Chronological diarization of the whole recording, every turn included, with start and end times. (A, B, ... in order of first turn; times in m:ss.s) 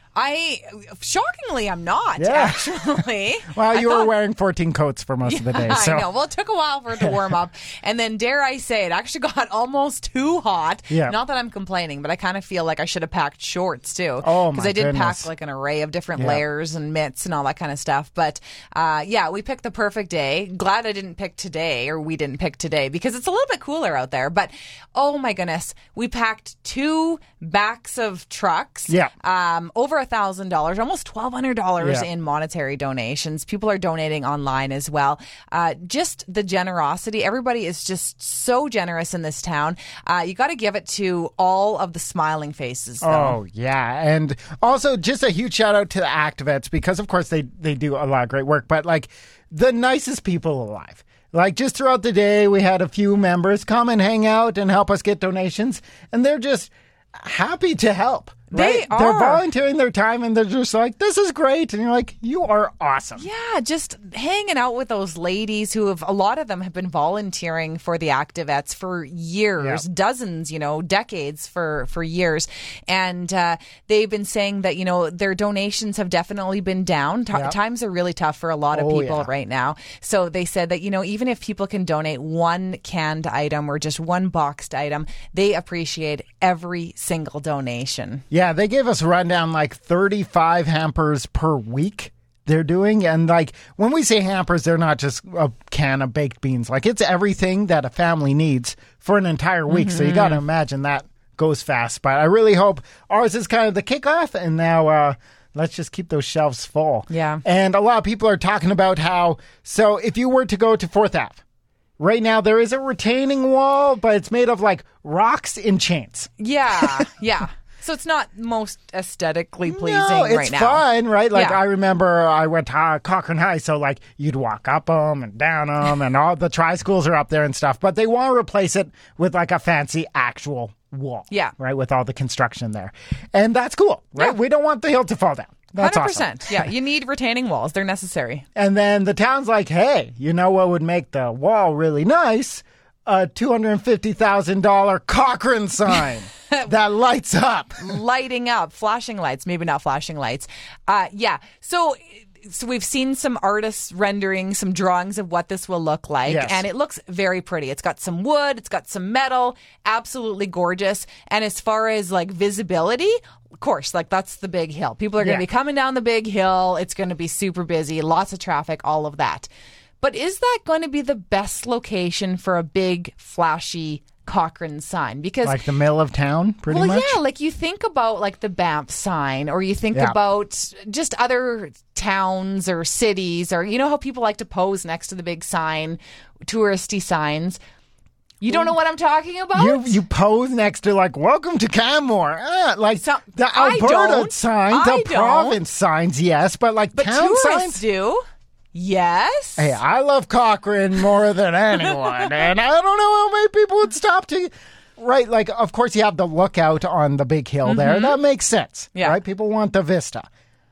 0:00.1-0:04.1 A
0:02.2-0:06.1 B
0:05.2-0:43.4 A
0:10.9-0:11.1 B
0:14.2-0:15.3 B
0:16.2-0:16.4 B
0:31.8-0:32.1 B
0:43.0-1:03.2 B
0:58.5-0:59.4 A
1:03.2-1:28.2 A
1:18.7-1:19.3 B
1:28.3-1:51.4 B
1:39.7-1:40.4 A
1:47.1-1:47.4 A
1:52.0-1:57.1 B
1:56.4-2:01.6 A
1:59.6-2:16.6 B
2:15.8-2:18.4 A
2:18.6-2:28.0 B
2:27.8-2:49.5 A
2:36.2-2:36.6 B
2:45.2-2:45.4 B
2:50.0-2:55.6 A
2:55.4-2:57.2 B
2:56.7-3:07.6 A
3:08.4-3:10.0 A
3:08.5-3:08.7 B
3:09.5-3:17.8 B
3:13.0-3:15.6 A
3:16.9-3:18.2 A
3:18.7-3:19.8 A
3:19.6-3:30.3 B
3:21.8-3:22.3 A
3:27.6-3:28.2 A